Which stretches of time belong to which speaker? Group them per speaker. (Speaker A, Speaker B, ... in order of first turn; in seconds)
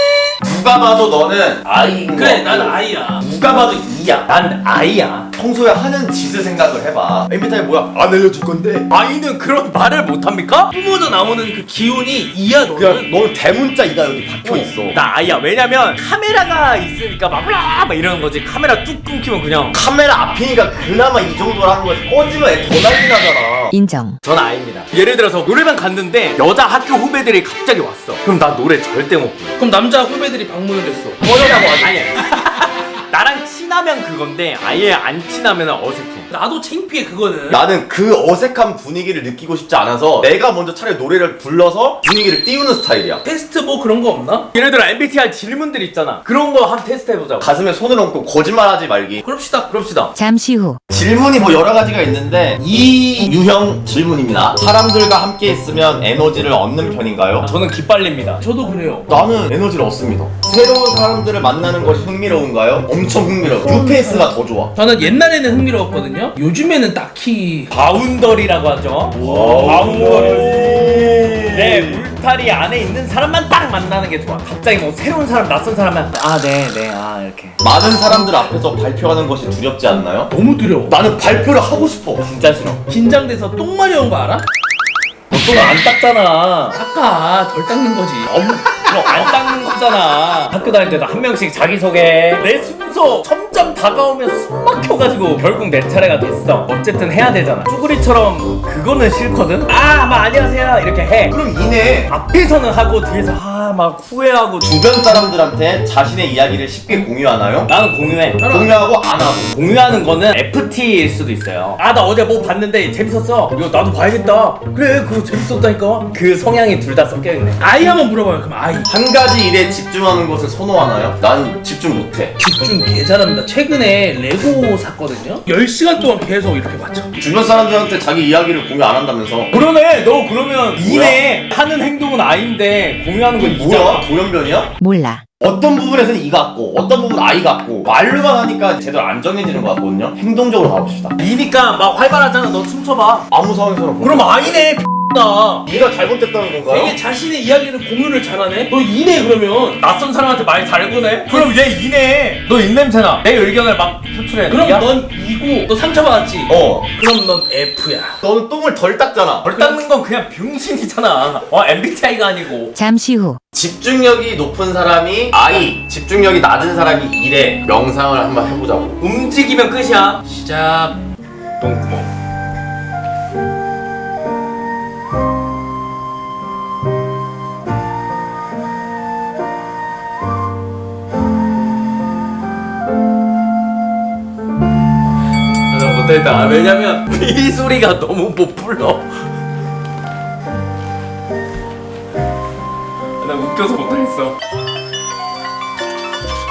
Speaker A: 0.4-4.3, 5.3-8.9, 12.7-15.0, 19.7-23.7, 31.2-32.0, 37.5-43.2, 47.4-49.2, 50.9-57.5, 59.1-64.7, 69.2-72.0, 77.6-80.3, 80.9-82.3, 85.3-85.6, 88.9-89.3, 101.3-102.1, 104.6-107.7, 108.5-109.5, 118.9-122.3, 127.2-129.5, 130.8-131.2, 133.4-134.7, 135.4-141.2, 143.3-144.7, 145.7-147.0, 156.5-156.9, 158.2-159.5, 163.5-169.0
Speaker B: 1.7-2.1, 4.3-5.3, 8.9-10.7, 14.9-19.8, 24.2-29.5, 31.8-36.3, 44.5-47.5, 49.7-50.1, 57.4-58.4, 67.7-77.6, 82.2-82.8, 85.4-86.8, 88.9-101.4, 102.1-104.7, 107.7-108.5, 109.5-117.6, 129.5-134.1, 141.2-143.3, 144.0-145.7, 149.8-154.9, 159.4-162.8, 169.0-170.2, 171.6-172.1, 185.7-189.1, 193.2-194.3
Speaker C: 2.1-3.3, 10.7-13.1, 29.6-31.5, 36.3-37.6, 43.2-44.5, 49.2-49.7, 58.4-59.2, 64.8-67.7, 69.3-70.6, 80.3-81.0, 82.9-84.5, 86.7-88.6, 108.4-108.8, 117.6-118.9, 122.4-127.1, 146.7-149.8, 154.5-158.2, 159.5-159.8, 170.2-171.0
Speaker D: 23.7-24.2, 50.2-50.8, 134.8-135.2, 162.8-163.4